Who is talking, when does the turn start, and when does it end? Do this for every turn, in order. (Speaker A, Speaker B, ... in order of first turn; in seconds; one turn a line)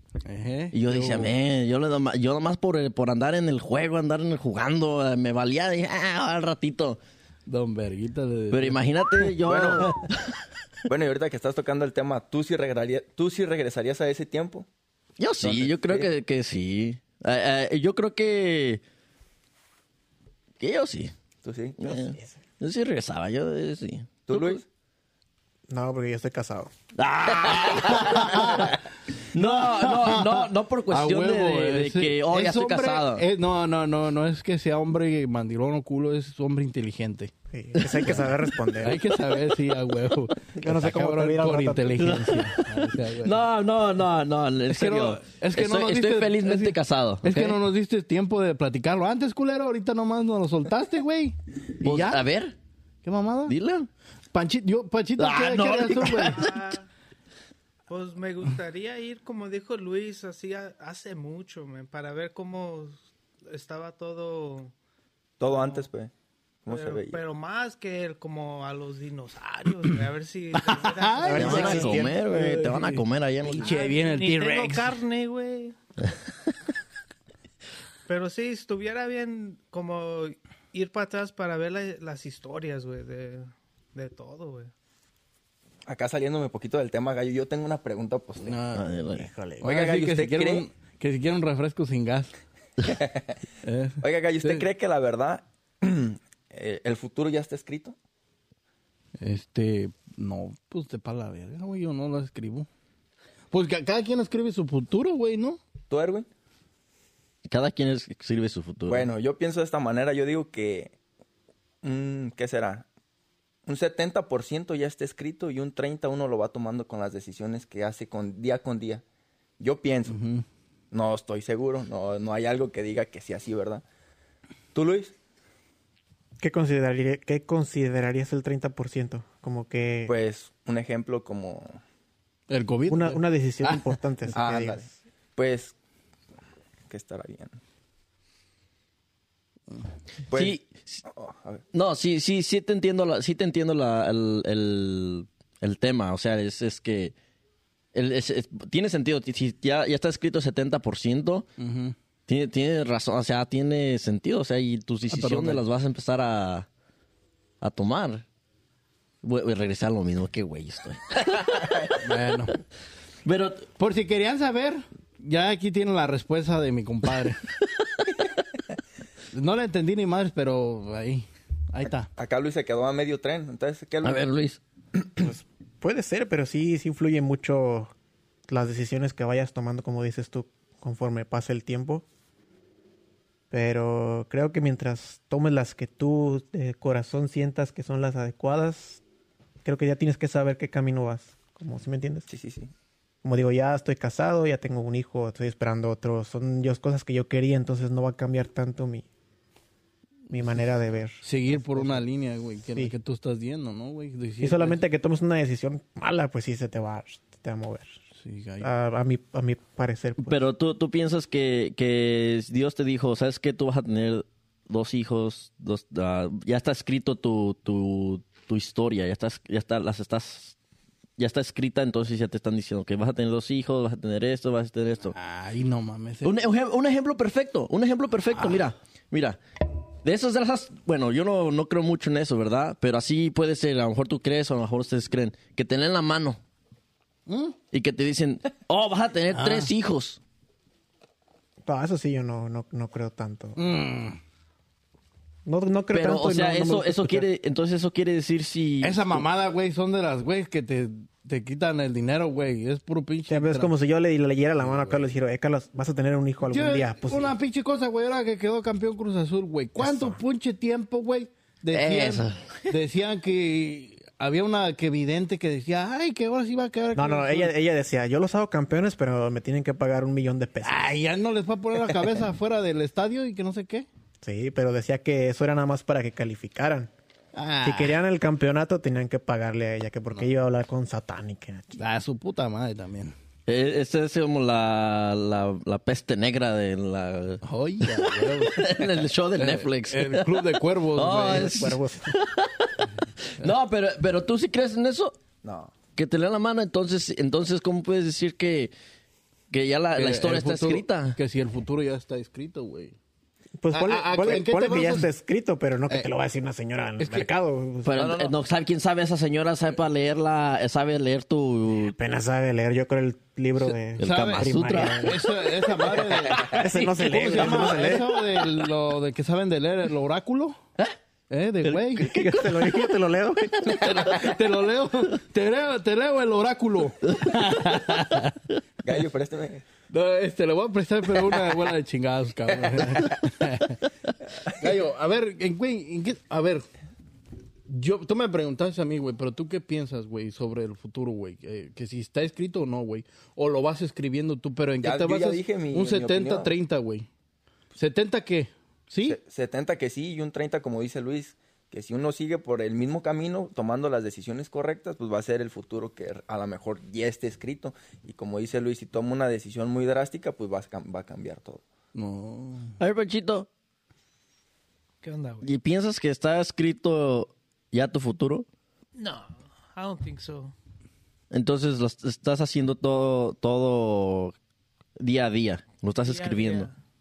Speaker A: 0.2-1.3
Speaker B: 0.7-7.0
Speaker A: 7.5-9.3
Speaker B: 8.5-10.4
Speaker C: 9.4-10.0
Speaker C: 10.9-14.7
Speaker B: 15.2-18.8
Speaker C: 15.4-16.1
Speaker B: 20.6-21.1
Speaker C: 21.4-22.1
Speaker B: 21.8-24.6
Speaker C: 24.2-24.6
Speaker D: 25.7-26.7
Speaker B: 26.9-28.7
Speaker A: 27.7-28.8
Speaker B: 29.3-33.2
Speaker A: 29.3-43.4
Speaker D: 37.5-39.0
Speaker D: 40.6-42.2
Speaker B: 42.0-47.6
Speaker A: 44.7-52.2
Speaker B: 51.8-52.5
Speaker A: 53.0-53.5
Speaker B: 53.5-53.9
Speaker A: 54.3-56.4
Speaker B: 55.2-56.7
Speaker E: 56.0-56.9
Speaker E: 57.9-64.7
Speaker C: 65.4-66.1
Speaker E: 65.4-65.9
Speaker C: 66.6-67.2
Speaker E: 66.7-72.0
Speaker A: 70.7-74.9
Speaker D: 71.2-72.2
Speaker B: 71.3-73.7
Speaker E: 73.6-75.8
Speaker E: 78.1-84.7
Speaker C: 85.9-88.6
Speaker A: 88.4-89.1
Speaker B: 88.7-89.3
Speaker D: 89.1-89.6
Speaker A: 89.6-92.4
Speaker C: 89.6-90.6
Speaker C: 92.8-93.3
Speaker A: 93.6-94.7
Speaker C: 94.0-98.0
Speaker A: 99.2-102.7
Speaker A: 103.5-105.6
Speaker C: 105.9-106.3
Speaker B: 107.5-109.1
Speaker C: 108.9-110.9
Speaker C: 111.8-112.8
Speaker C: 113.7-119.0
Speaker C: 119.6-120.2
Speaker A: 120.1-120.4
Speaker C: 120.9-123.8
Speaker C: 124.7-125.1
Speaker D: 126.4-130.1
Speaker C: 130.1-131.8
Speaker A: 132.5-134.0
Speaker D: 132.9-134.9
Speaker C: 134.3-134.8
Speaker C: 135.3-135.7
Speaker C: 136.9-137.6
Speaker C: 140.3-141.6
Speaker B: 140.3-141.0
Speaker B: 141.7-147.1
Speaker B: 147.9-151.5
Speaker A: 151.6-151.9
Speaker B: 152.3-156.7
Speaker A: 155.1-155.6
Speaker B: 157.6-158.2
Speaker B: 159.2-162.0
Speaker A: 162.0-162.5
Speaker B: 163.2-163.7
Speaker A: 163.8-167.4
Speaker B: 167.5-168.0
Speaker A: 169.3-172.1
Speaker C: 172.1-174.2
Speaker B: 174.0-174.6
Speaker C: 174.9-175.3
Speaker D: 175.2-177.9
Speaker D: 178.5-182.0
Speaker D: 183.5-189.0
Speaker D: 189.6-192.3
Speaker C: 192.3-192.7
Speaker D: 193.2-199.1
Speaker D: 200.3-202.0
Speaker A: 201.2-204.8
Speaker D: 204.4-207.9
Speaker A: 208.2-208.7
Speaker D: 208.6-210.4
Speaker B: 210.2-220.6
Speaker B: 221.2-225.2
Speaker A: 225.1-226.3
Speaker B: 226.2-229.4
Speaker B: 230.0-236.4
Speaker A: 237.3-237.6
Speaker B: 237.7-240.2
Speaker A: 239.3-239.7
Speaker D: 241.6-243.6
Speaker A: 243.6-244.2
Speaker D: 245.4-247.3
Speaker B: 245.9-249.2
Speaker A: 248.8-253.7
Speaker D: 253.3-257.3
Speaker A: 256.5-267.5
Speaker D: 259.8-260.2
Speaker B: 261.7-262.7
Speaker D: 266.9-270.9
Speaker A: 270.6-273.9
Speaker D: 274.2-276.9
Speaker A: 277.3-278.0
Speaker D: 277.6-281.8
Speaker A: 281.7-283.1
Speaker B: 283.5-295.2
Speaker A: 287.4-288.7
Speaker A: 289.4-291.7
Speaker D: 291.2-292.1
Speaker C: 295.4-295.7
Speaker B: 295.9-298.7
Speaker B: 299.5-301.2
Speaker A: 299.9-302.9
Speaker D: 303.6-307.9
Speaker A: 303.7-305.1
Speaker A: 307.0-307.3
Speaker B: 307.8-311.9
Speaker C: 307.9-308.4
Speaker D: 311.7-315.2
Speaker B: 313.9-315.3
Speaker A: 314.0-320.6
Speaker B: 315.9-318.5
Speaker D: 316.4-318.1
Speaker A: 321.3-322.1
Speaker B: 321.7-322.9
Speaker D: 322.0-324.0
Speaker B: 323.6-324.2
Speaker A: 323.9-328.4
Speaker B: 327.1-328.2
Speaker C: 328.8-329.6
Speaker A: 329.9-333.8
Speaker C: 332.5-333.2
Speaker A: 334.6-336.6
Speaker A: 337.7-347.1
Speaker C: 344.8-346.5
Speaker A: 347.8-349.2
Speaker C: 349.0-361.6
Speaker A: 361.9-362.7
Speaker B: 362.8-363.5
Speaker E: 365.0-365.5
Speaker B: 365.4-368.4
Speaker E: 369.0-370.5
Speaker B: 371.3-374.3
Speaker B: 375.0-376.7
Speaker E: 376.1-376.7